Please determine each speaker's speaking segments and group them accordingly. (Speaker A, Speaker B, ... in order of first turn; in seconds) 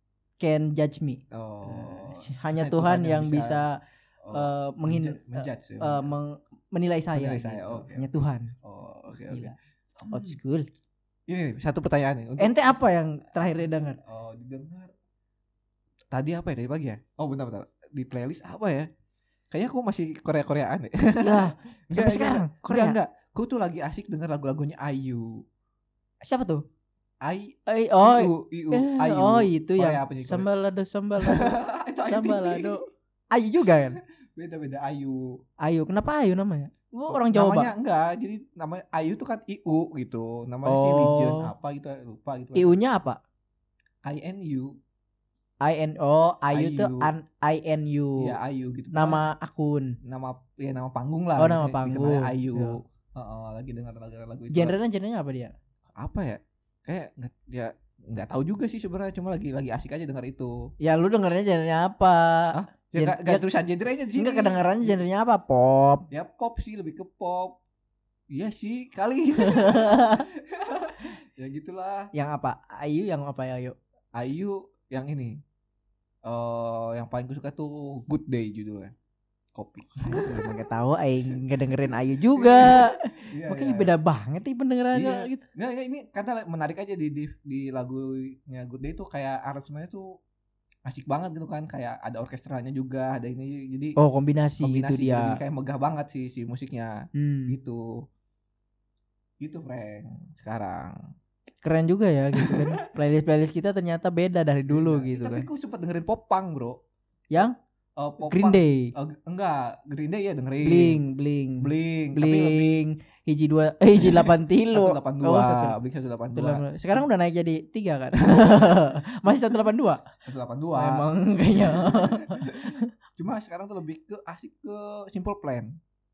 Speaker A: 0.4-3.8, 4.3-8.5, 9.3-9.6, 10.1-10.7, 12.4-14.0, 21.2-23.0, 26.2-26.6, 27.7-34.0, 35.6-37.7, 40.7-41.5, 42.5-43.2, 45.6-48.3, 48.9-50.0, 51.4-52.8, 54.5-55.5, 60.8-63.4, 64.2-66.1, 69.4-70.3, 72.1-73.8, 80.1-85.5, 94.0-95.4, 97.2-97.6, 101.6-105.5, 108.3-108.9, 110.6-115.8, 116.3-120.1, 120.8-122.9
Speaker B: 1.3-3.6, 4.2-6.2, 7.2-10.4, 11.3-12.8, 13.4-14.9, 16.1-18.9, 19.5-25.4, 27.2-30.5, 31.2-32.9, 33.9-35.2, 37.1-42.8, 44.0-44.7, 46.5-47.1, 48.2-49.3, 50.0-54.8, 56.0-60.5, 62.5-65.0, 66.1-67.6, 68.3-72.1, 74.2-75.4, 76.2-78.9, 79.5-80.6, 81.3-83.9, 84.9-90.1, 90.9-94.0, 94.6-97.9, 99.4-101.0, 102.4-102.8, 104.7-106.8, 107.4-111.0, 111.6-112.8, 114.0-117.0, 118.2-119.6, 120.2-125.8